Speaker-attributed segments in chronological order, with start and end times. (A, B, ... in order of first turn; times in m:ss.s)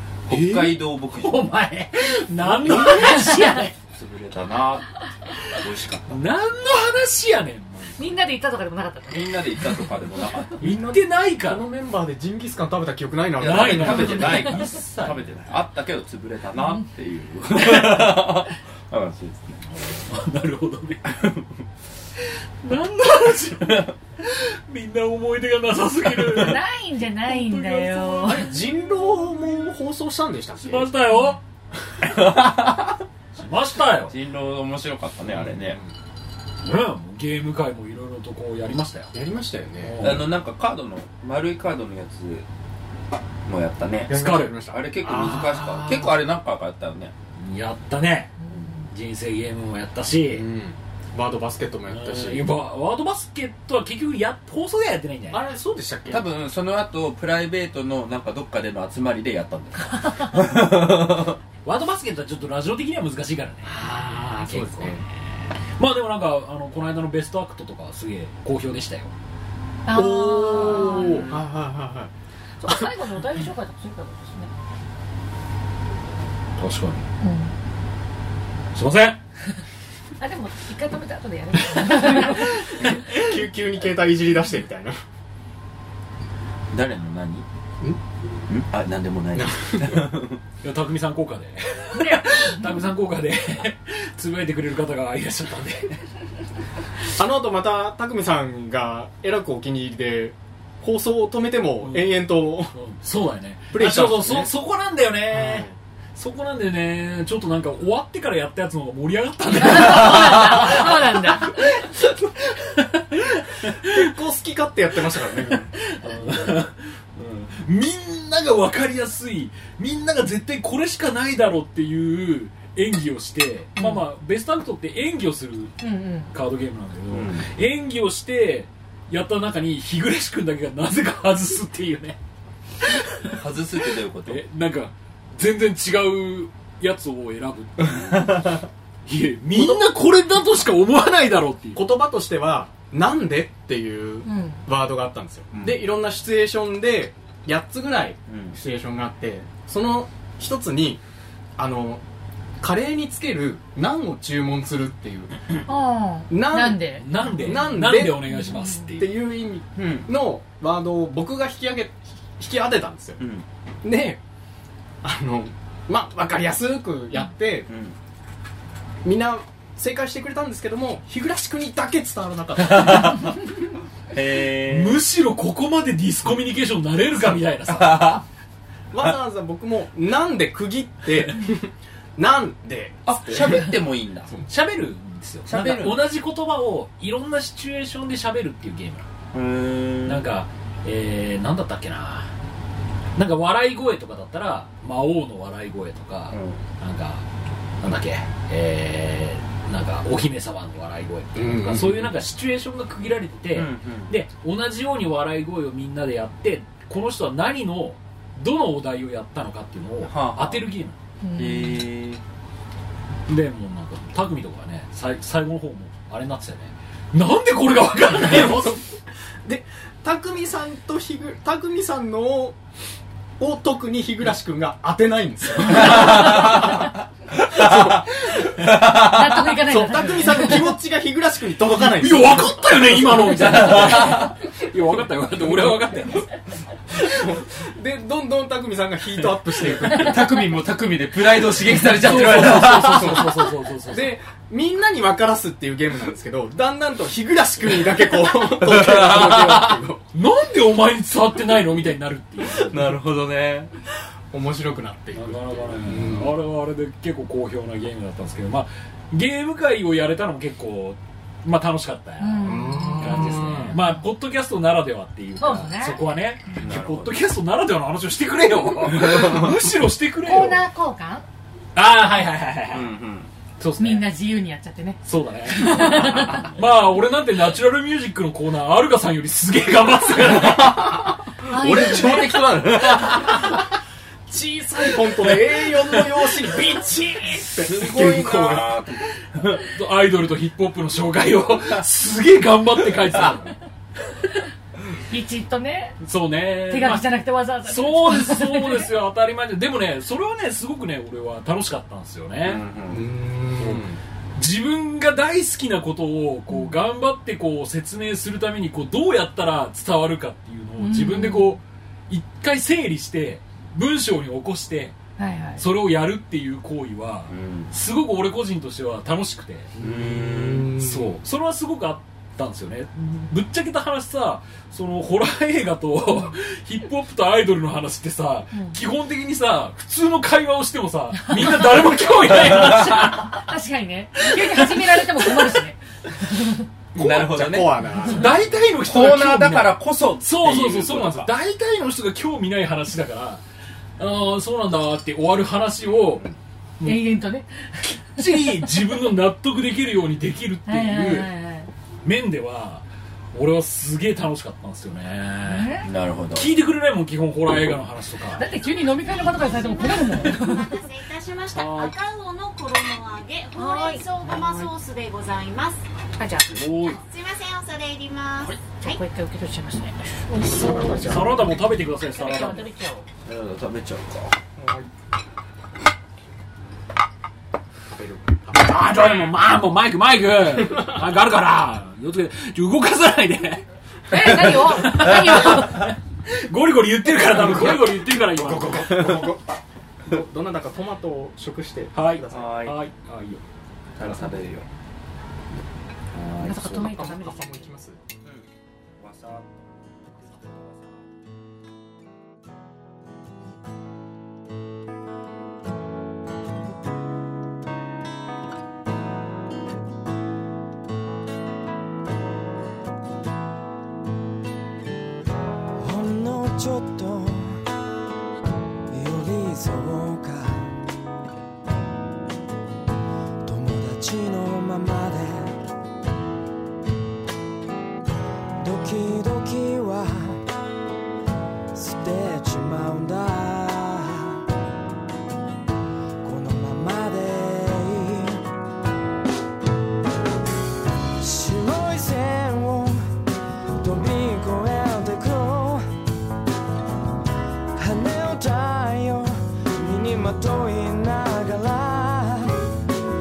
0:00.3-0:01.5 A
0:00.3-0:03.7 B
0:02.4-0:06.2 A
0:06.1-0:08.2 B
0:08.0-0:09.6 C
0:09.1-0:10.6 A
0:10.6-0:11.7 B
0:10.6-0:14.5 D
0:13.4-0:15.5 B
0:13.4-0:19.6 A
0:19.7-0:21.2 B
0:21.0-0:21.5 A
0:22.2-0:26.6 B
0:26.1-0:26.5 A
0:26.3-0:28.5 C
0:27.3-0:28.4 B
0:28.2-0:30.9 D
0:30.6-0:31.4 B
0:31.1-0:31.4 C
0:32.0-0:33.0 A
0:33.3-0:34.2 B
0:34.0-0:35.8 A
0:35.3-0:35.9 D
0:36.6-0:39.1 B
0:39.1-0:40.1 D
0:39.8-0:40.3 B
0:40.0-0:42.5 A
0:43.5-0:47.1 A
0:44.1-0:46.2 D
0:44.1-0:44.6 B
0:47.4-0:50.5 B
0:50.3-0:52.5 D
0:51.9-0:55.5 B
0:55.3-0:56.3 D
0:56.1-1:01.4 A
1:01.6-1:09.1 B
1:03.7-1:05.0 D
1:09.9-1:11.4 C
1:09.9-1:12.1 D
1:10.9-1:11.2 B
1:12.6-1:14.5 C
1:16.6-1:17.1 B
1:17.2-1:17.5 C
1:18.8-1:19.2 B
1:20.2-1:22.6 C
1:22.8-1:23.3 B
1:22.8-1:25.0 D
1:26.7-1:27.5 A
1:28.5-1:30.4 A
1:29.4-1:30.1 D
1:30.6-1:36.0 B
1:37.2-1:42.8 D
1:41.8-1:54.1 B
1:43.7-1:44.5 D
1:45.3-1:45.8 D
1:49.6-1:51.6 C
1:53.8-1:55.7 D
1:55.5-2:05.8 B
2:03.8-2:04.0 C
2:05.8-2:06.3 C
2:06.3-2:12.2 B
2:07.1-2:07.5 A
2:12.8-2:13.4 B
2:13.3-2:14.4 A
2:14.2-2:18.5 B
2:17.8-2:18.6 A
2:19.1-2:21.9 B
2:19.5-2:19.8 D
2:21.8-2:31.0 D
2:24.2-2:24.6 C
2:25.5-2:25.9 A
2:28.3-2:28.6 A
2:31.6-2:32.0 D
2:32.6-2:35.6 D
2:35.7-2:37.7 C
2:36.3-2:38.4 D
2:37.0-2:39.1 B
2:38.4-2:38.7 C
2:39.0-2:43.2 D
2:39.8-2:40.1 A
2:43.2-2:43.4 A
2:43.8-2:44.2 D
2:45.0-2:47.7 D
2:47.7-2:48.0 A
2:49.0-2:53.4 D
2:52.6-2:53.4 A
2:54.1-2:55.0 A
2:54.6-2:58.2 B
2:57.7-2:58.2 A
2:58.9-3:03.8 D
3:03.1-3:04.3 A
3:04.5-3:09.1 B
3:05.5-3:06.1 A
3:09.3-3:10.3 A
3:10.0-3:12.3 B
3:13.2-3:17.3 B
3:16.3-3:16.6 A
3:17.8-3:31.0 B
3:21.4-3:22.1 D
3:23.5-3:24.2 A
3:30.0-3:30.7 A
3:31.2-3:31.8 C
3:31.4-3:32.2 A
3:33.3-3:38.8 B
3:38.2-3:38.8 D
3:39.4-3:42.6 D
3:43.4-3:46.9 D
3:45.7-3:49.5 A
3:47.5-3:48.5 D
3:48.7-3:50.8 C
3:49.6-3:53.8 D
3:51.8-3:56.3 B
3:53.1-3:54.4 A
3:57.1-4:00.2 D
3:59.8-4:03.3 A
4:01.8-4:04.2 B
4:02.1-4:10.0 D
4:08.2-4:09.8 A
4:10.1-4:12.9 B
4:12.5-4:13.7 A
4:14.3-4:16.4 D
4:15.1-4:30.7 B
4:22.2-4:24.0 C
4:22.4-4:23.8 D
4:25.4-4:26.0 C
4:26.6-4:27.2 A
4:28.8-4:29.5 A
4:30.2-4:31.2 C
4:31.8-4:32.9 B
4:32.7-4:33.3 A
4:33.6-4:34.1 B
4:33.8-4:36.5 C
4:35.0-4:41.0 B
4:40.2-4:43.7 A
4:41.5-4:42.6 C
4:41.7-4:42.2 D
4:43.2-4:43.6 D
4:44.3-4:48.7 D
4:45.5-4:46.2 B
4:47.6-4:49.7 A
4:47.8-4:48.3 B
4:49.6-4:53.6 B
4:53.0-4:53.4 A
4:55.1-4:56.0 C
4:56.0-4:57.1 B
4:56.6-4:58.9 C
4:57.6-5:02.6 B
5:02.4-5:03.1 A
5:02.9-5:04.0 D
5:03.6-5:15.0 B
5:06.5-5:06.8 C
5:10.8-5:11.6 C
5:15.2-5:15.6 C
5:15.6-5:19.8 B
5:17.3-5:17.7 A
5:19.8-5:21.2 D
5:19.8-5:20.8 A
5:20.8-5:33.4 B
5:32.3-5:33.0 A
5:33.0-5:35.8 C
5:34.2-5:35.6 B
5:36.4-5:36.6 C
5:37.0-5:37.8 A
5:37.0-5:43.4 B
5:37.1-5:38.5 D
5:38.8-5:41.3 A
5:44.0-5:46.2 B
5:46.8-5:48.7 C
5:47.8-5:51.3 B
5:50.7-5:51.7 C
5:52.0-5:55.8 B
5:55.4-5:55.9 C
5:55.8-5:56.5 A
5:56.4-5:58.5 B
5:58.4-6:00.7 C
5:58.5-6:05.8 E
6:00.1-6:00.5 B
6:01.5-6:01.9 B
6:03.6-6:04.7 C
6:06.2-6:06.7 C
6:06.5-6:07.0 B
6:06.8-6:09.0 E
6:08.8-6:11.3 C
6:10.4-6:11.7 D
6:10.8-6:12.7 B
6:12.0-6:13.1 C
6:13.3-6:14.4 A
6:14.6-6:14.9 D
6:17.9-6:19.2 D
6:18.5-6:29.3 B
6:24.1-6:25.9 C
6:27.2-6:29.4 D
6:28.6-6:29.4 A
6:30.1-6:32.7 D
6:31.9-6:33.4 B
6:32.3-6:32.8 A
6:34.0-6:34.7 A
6:36.1-6:36.9 B
6:36.4-6:37.7 C
6:36.5-6:38.0 D
6:39.0-6:39.5 A
6:40.2-6:40.8 A
6:55.8-6:57.6 F
6:58.9-7:00.8 F
7:03.4-7:05.6 F
7:08.6-7:10.4 F
7:11.7-7:14.4 F
7:16.2-7:18.4 F
7:21.2-7:23.0 F
7:23.8-7:25.8 F
7:27.8-7:32.6 F